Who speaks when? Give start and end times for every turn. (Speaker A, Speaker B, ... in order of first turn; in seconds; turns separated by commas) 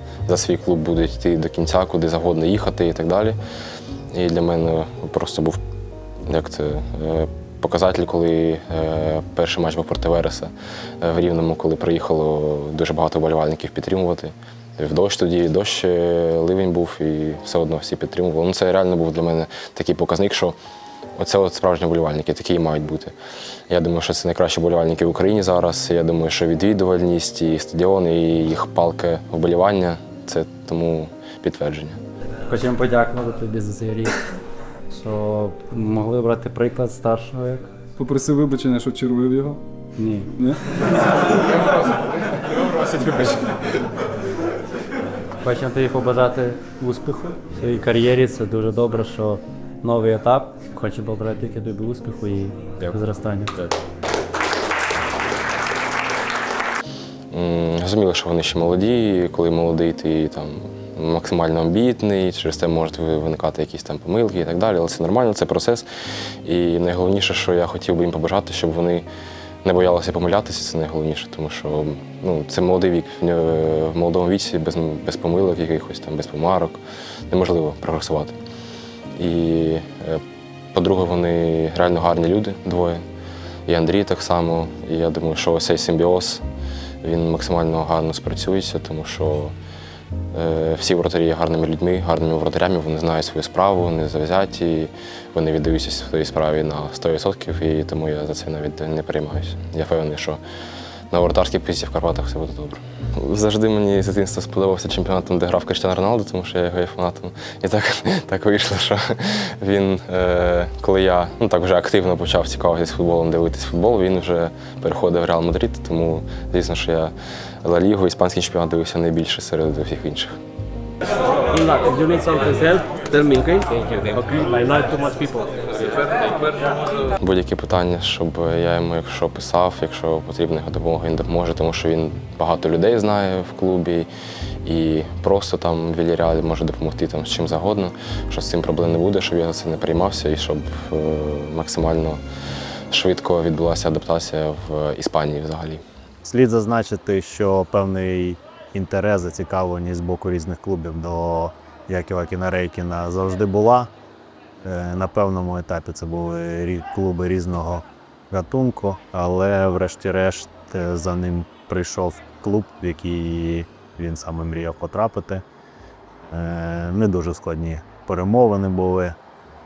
Speaker A: 0.3-3.4, Speaker A: 4.1-5.6, Speaker A: 6.3-20.6, Speaker A: 21.2-23.1, Speaker A: 23.7-32.0, Speaker B: 32.5-34.2, Speaker B: 34.9-37.6, Speaker C: 38.0-40.8, Speaker B: 40.0-40.3, Speaker B: 45.4-53.5, Speaker A: 57.3-65.9, Speaker A: 66.5-69.1, Speaker A: 69.6-78.3, Speaker A: 79.2-80.2, Speaker A: 80.7-83.0, Speaker A: 83.7-86.4, Speaker A: 87.0-89.5, Speaker A: 90.3-100.4, Speaker A: 101.1-120.4, Speaker D: 121.5-125.9, Speaker A: 127.2-134.1, Speaker A: 134.6-142.2, Speaker A: 142.9-145.8, Speaker E: 146.2-153.9, Speaker E: 154.6-165.4, Speaker E: 166.3-169.2